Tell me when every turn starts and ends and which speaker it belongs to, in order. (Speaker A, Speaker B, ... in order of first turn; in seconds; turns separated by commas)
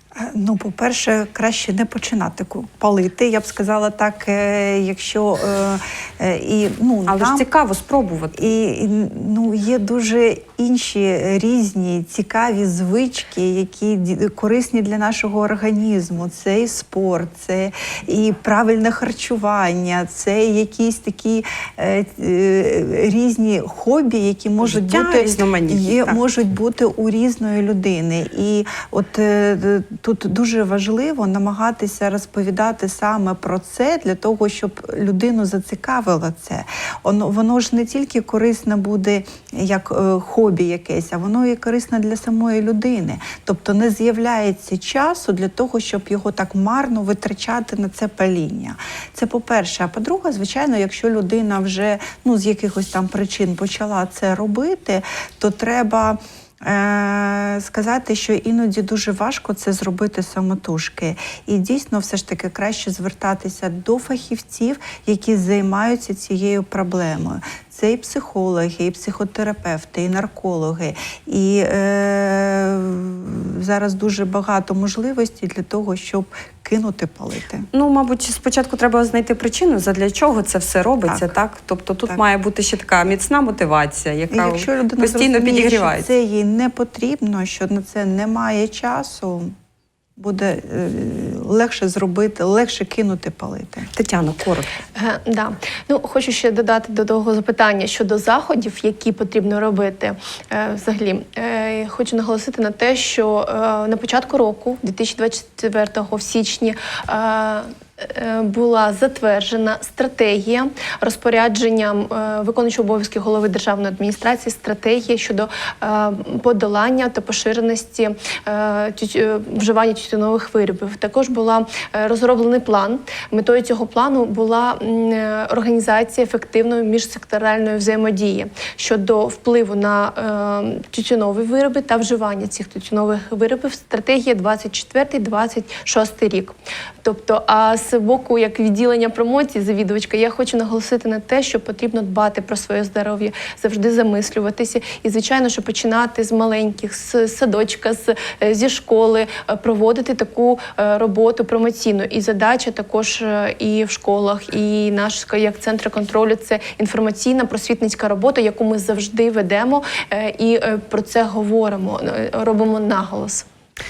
Speaker A: 0.1-7.5, Speaker B: 7.1-8.4, Speaker A: 8.3-77.7, Speaker B: 24.6-26.2, Speaker B: 77.7-86.1, Speaker A: 84.3-89.5, Speaker A: 90.2-93.9, Speaker B: 93.9-94.8, Speaker C: 95.0-163.5